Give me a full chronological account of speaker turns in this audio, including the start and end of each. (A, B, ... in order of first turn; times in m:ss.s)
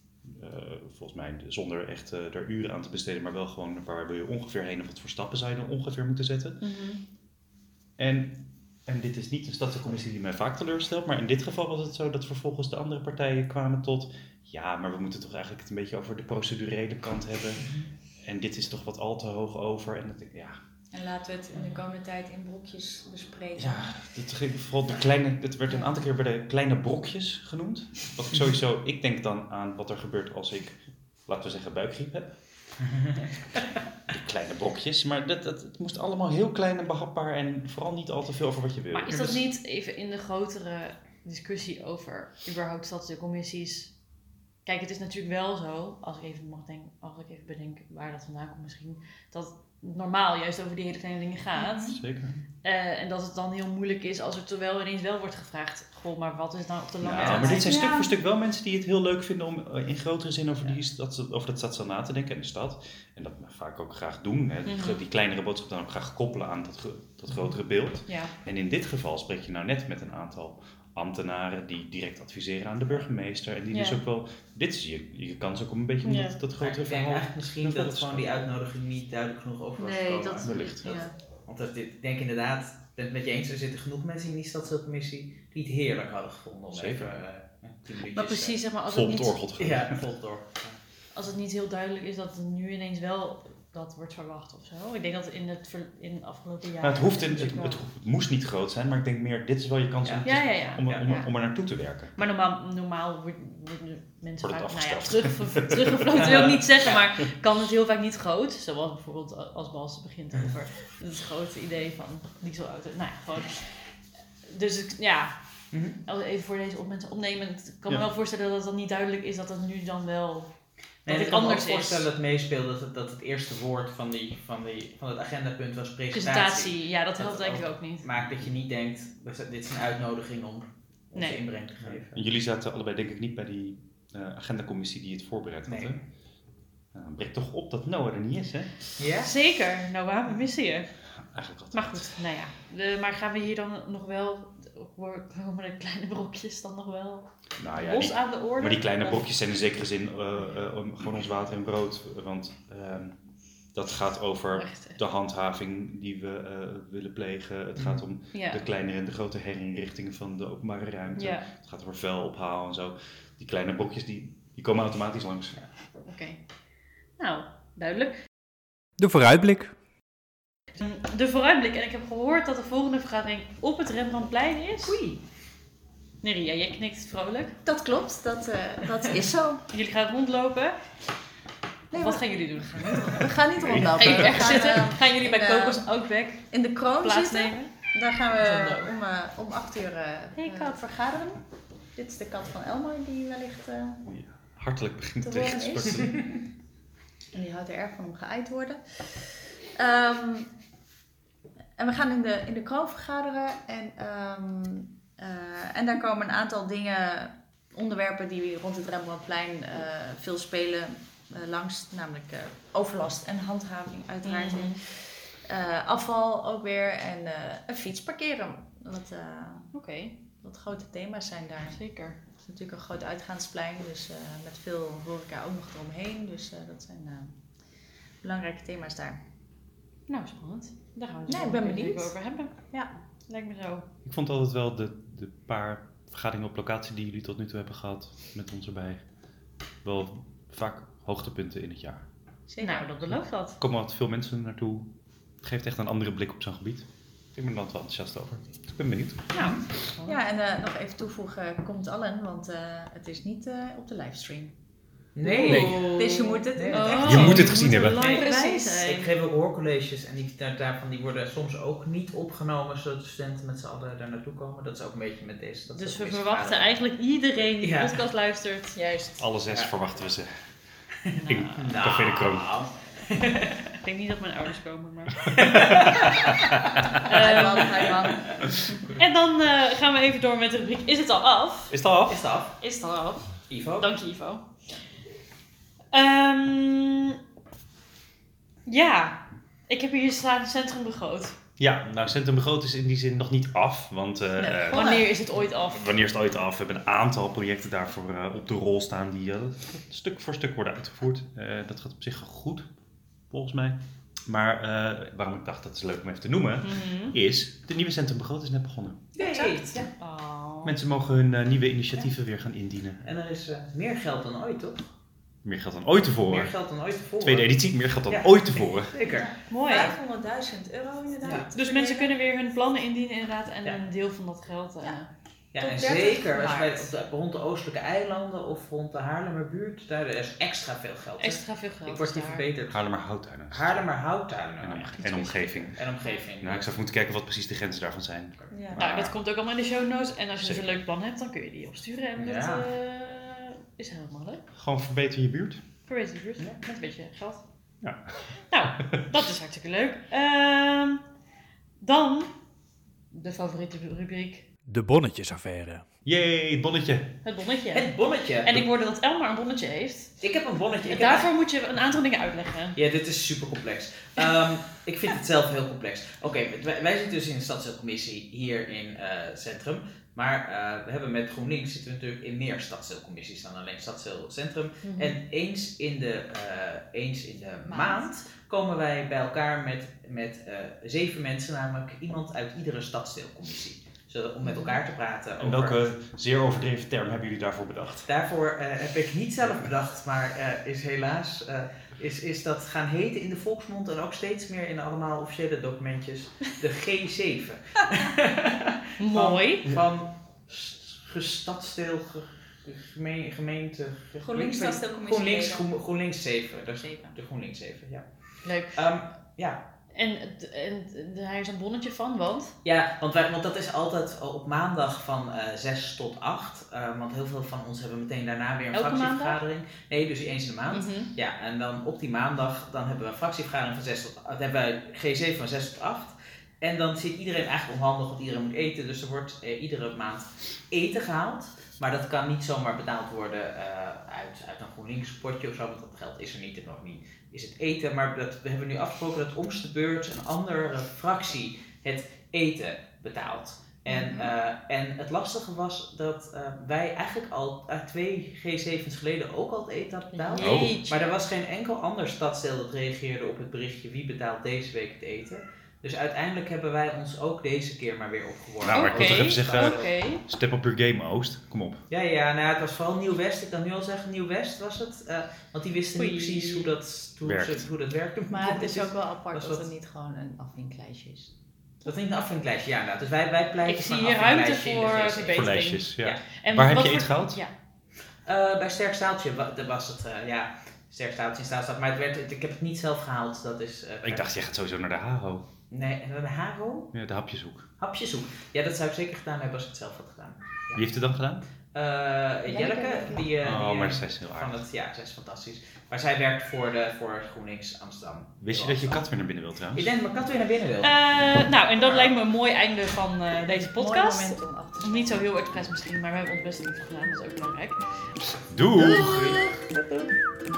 0:00.2-0:06.6 A
0:06.6-0:07.0 B
0:08.0-0:20.6 A
0:17.6-0:17.9 C
0:20.9-0:23.9 D
0:23.6-0:32.8 A
0:34.1-0:39.4 A
0:38.9-0:44.0 B
0:39.1-0:39.4 C
0:44.6-0:52.0 B
0:51.6-0:52.0 D
0:51.9-0:52.4 A
0:52.6-0:57.7 B
0:57.0-1:18.5 A
0:57.2-0:57.6 C
0:57.6-0:58.1 D
1:04.6-1:05.0 B
1:08.0-1:08.3 B
1:13.7-1:14.0 B
1:16.0-1:16.4 B
1:16.6-1:28.6 C
1:19.8-1:21.1 B
1:20.4-1:21.0 A
1:26.7-1:27.1 A
1:28.1-1:29.4 B
1:28.9-1:30.0 A
1:29.6-1:30.8 C
1:31.1-1:37.8 B
1:36.8-1:42.1 A
1:40.0-1:41.1 C
1:40.2-2:02.0 B
1:44.4-1:46.3 A
1:55.7-1:56.0 C
2:01.0-2:12.2 C
2:06.1-2:08.0 B
2:11.1-2:11.4 B
2:11.8-2:16.0 A
2:15.7-2:15.9 C
2:16.9-2:18.8 A
2:19.0-2:19.3 C
2:19.2-2:21.0 B
2:21.2-2:22.1 A
2:21.7-2:29.3 B
2:27.6-2:45.6 A
2:34.5-2:35.0 B
2:37.8-2:38.0 C
2:38.3-2:38.6 B
2:41.1-2:41.5 B
2:46.0-2:46.4 B
2:47.2-2:48.2 B
2:49.0-2:49.8 E
2:50.8-2:55.0 B
2:54.8-2:55.2 C
2:56.2-2:57.6 B
2:57.6-2:59.6 D
2:59.7-3:00.9 B
3:01.9-3:11.4 D
3:01.9-3:03.3 B
3:03.5-3:04.7 A
3:04.0-3:08.9 B
3:10.4-3:10.8 B
3:11.9-3:14.1 D
3:14.0-3:16.4 A
3:15.2-3:16.4 D
3:17.3-3:20.5 D
3:21.8-3:39.7 D
3:34.2-3:34.8 B
3:39.7-3:40.1 B
3:40.3-3:49.2 D
3:41.7-3:42.2 B
3:50.1-3:52.7 B
3:51.3-3:52.9 D
3:53.3-3:53.8 B
3:54.0-3:59.1 A
3:59.8-4:02.1 A
4:02.5-4:02.9 D
4:02.6-4:03.6 B
4:03.1-4:09.6 A
4:09.3-4:10.2 B
4:10.0-4:14.5 D
4:15.2-4:26.8 C
4:15.2-4:16.1 B
4:15.5-4:15.8 A
4:15.5-4:17.5 D
4:16.7-4:19.1 B
4:17.0-4:18.0 A
4:25.7-4:28.8 B
4:27.6-4:28.0 C
4:28.7-4:29.3 D
4:29.2-4:30.5 A
4:31.1-4:31.7 B
4:31.2-4:32.6 A
4:31.6-4:33.6 C
4:33.8-4:36.1 B
4:35.4-4:36.4 C
4:37.0-4:37.9 B
4:37.1-4:38.8 D
4:38.8-4:41.8 B
4:41.7-4:42.2 A
4:42.1-4:42.6 C
4:42.6-4:44.6 B
4:43.5-4:43.9 C
4:45.9-4:47.2 B
4:48.6-4:51.4 B
4:51.6-5:02.7 A
4:54.4-4:55.8 B
4:54.7-4:55.0 D
5:03.3-5:09.1 A
5:06.6-5:07.1 B
5:09.2-5:09.9 C
5:09.2-5:09.8 D
5:09.9-5:10.7 B
5:10.6-5:13.0 A
5:13.0-5:14.9 C
5:15.4-5:16.5 A
5:16.2-5:19.3 C
5:17.2-5:19.0 A
5:19.1-5:19.9 B
5:19.5-5:22.1 D
5:21.5-5:25.1 B
5:25.5-5:32.8 C
5:25.6-5:26.9 D
5:31.2-5:32.4 B
5:32.6-5:33.9 A
5:33.5-5:36.6 C
5:34.6-5:35.9 A
5:35.0-5:36.2 B
5:36.4-5:39.2 A
5:38.5-5:38.8 D
5:38.8-5:44.4 B
5:40.4-5:40.7 A
5:42.2-5:42.7 C
5:44.5-5:45.6 A
5:45.9-5:47.8 B
5:47.8-5:48.5 A
5:48.5-5:51.1 B
5:51.8-5:52.3 B
5:53.1-5:54.4 B
5:54.6-5:55.8 E
5:56.0-5:57.2 A
5:57.2-6:00.2 B
5:57.7-5:58.6 C
6:00.2-6:01.3 C
6:00.8-6:02.8 B
6:02.8-6:25.8 C
6:14.8-6:15.2 B
6:17.7-6:18.1 D
6:24.4-6:24.7 B
6:25.4-6:28.1 A
6:28.1-6:49.6 C
6:39.0-6:39.7 B
6:44.2-6:45.7 D
6:46.8-6:47.2 D
6:48.4-6:48.8 B
6:49.9-6:52.5 B
6:52.6-7:39.9 C
6:58.7-6:59.4 B
7:00.7-7:01.1 B
7:23.9-7:24.2 B
7:30.1-7:31.0 B
7:30.4-7:30.8 A
7:38.6-7:41.8 A
7:38.7-7:40.2 B
7:41.9-7:49.7 C
7:46.0-7:46.7 B
7:47.2-7:47.6 A
7:48.3-7:51.3 D
7:51.8-7:56.2 C
7:53.6-7:57.5 B
7:55.3-7:57.4 A
7:58.2-8:04.2 C
8:04.0-8:05.5 A
8:05.7-8:07.0 C
8:06.9-8:07.7 A
8:07.8-8:10.8 C
8:10.7-8:11.4 A
8:11.7-8:19.0 C
8:12.5-8:13.2 D
8:13.4-8:14.6 A
8:18.4-8:19.9 A
8:19.7-8:21.0 C
8:20.8-8:28.1 B
8:21.8-8:22.1 C
8:23.6-8:25.2 D
8:28.4-8:29.3 A
8:28.8-8:30.1 C